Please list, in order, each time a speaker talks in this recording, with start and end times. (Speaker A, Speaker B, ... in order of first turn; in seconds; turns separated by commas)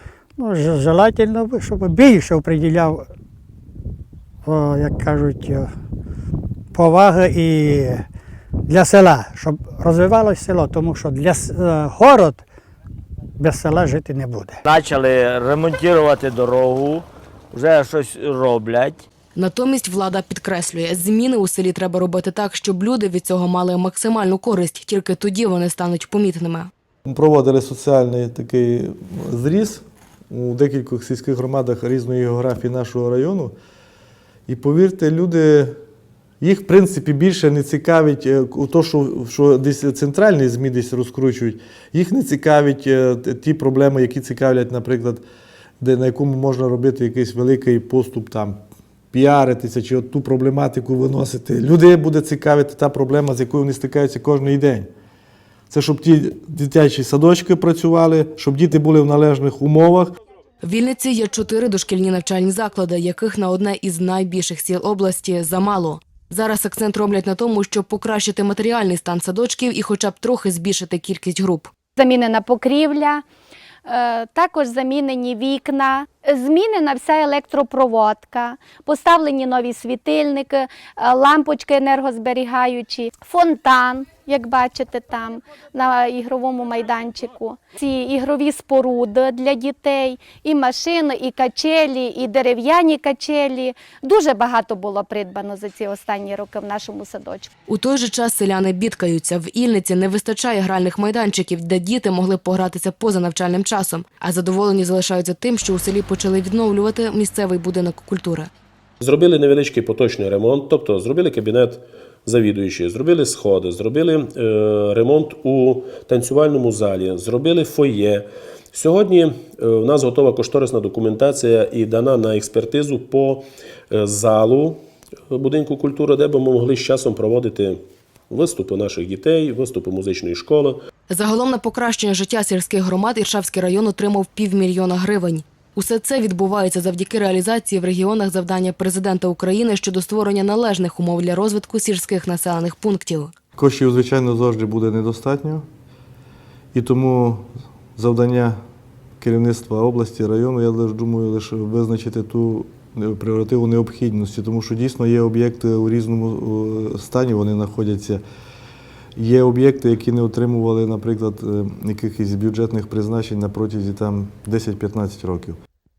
Speaker A: 0.4-3.0, Speaker A: 4.5-5.7, Speaker A: 6.7-8.1, Speaker A: 8.7-12.4, Speaker A: 13.4-14.6, Speaker B: 14.7-19.0, Speaker C: 19.4-26.7, Speaker D: 27.1-33.5, Speaker D: 34.5-35.8, Speaker D: 36.4-45.2, Speaker D: 45.8-48.6, Speaker D: 49.1-54.9, Speaker D: 55.7-60.2, Speaker C: 60.6-71.7, Speaker E: 72.0-73.2, Speaker E: 73.8-97.5, Speaker C: 97.7-108.5, Speaker F: 109.0-127.8, Speaker F: 128.3-130.8, Speaker C: 131.1-143.3, Speaker D: 143.6-145.7, Speaker D: 146.7-148.6, Speaker D: 149.2-158.2, Speaker D: 159.2-165.6